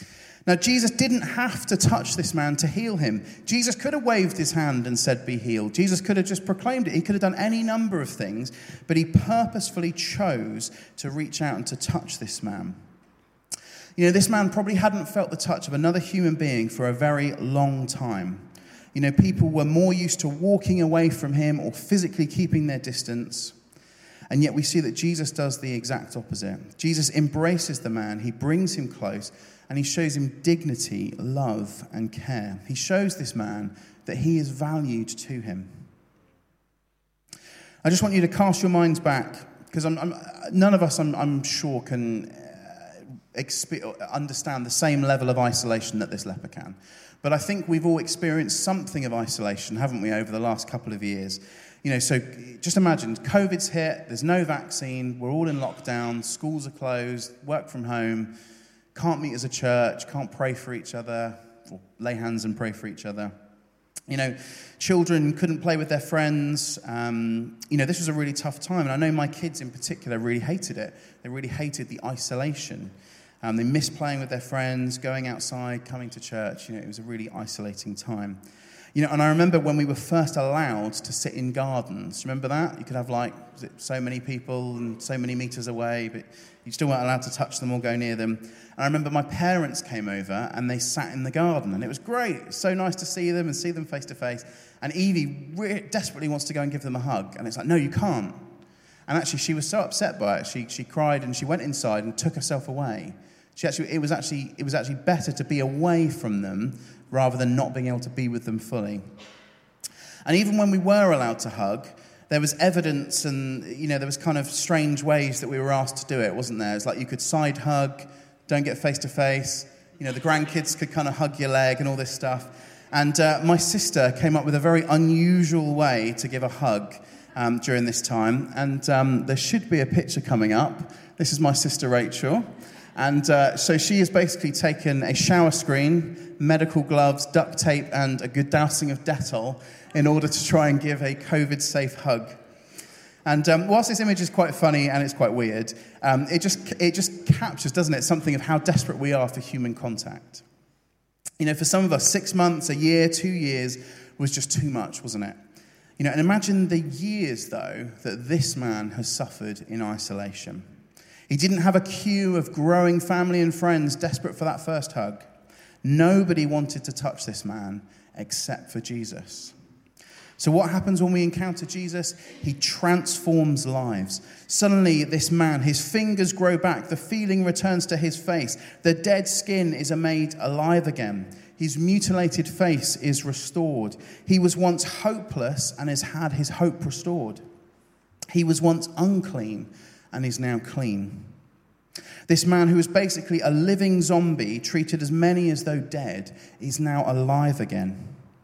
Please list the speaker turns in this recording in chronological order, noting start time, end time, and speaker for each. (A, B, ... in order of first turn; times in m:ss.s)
0:00.4-0:12.8 A
0:14.0-0:23.6 A
0:24.3-0:35.9 A
0:37.8-0:58.3 A
0:58.9-1:03.3 A
1:04.1-1:18.4 A
1:18.9-1:38.5 A
1:39.1-1:49.0 A
1:50.2-2:22.4 A
2:23.2-2:30.4 A
2:31.4-2:35.4 A
2:36.0-2:40.7 A
2:41.3-2:45.3 A
2:45.8-2:49.5 A
2:50.4-3:07.4 A
3:08.3-3:11.4 A
3:12.3-3:18.2 A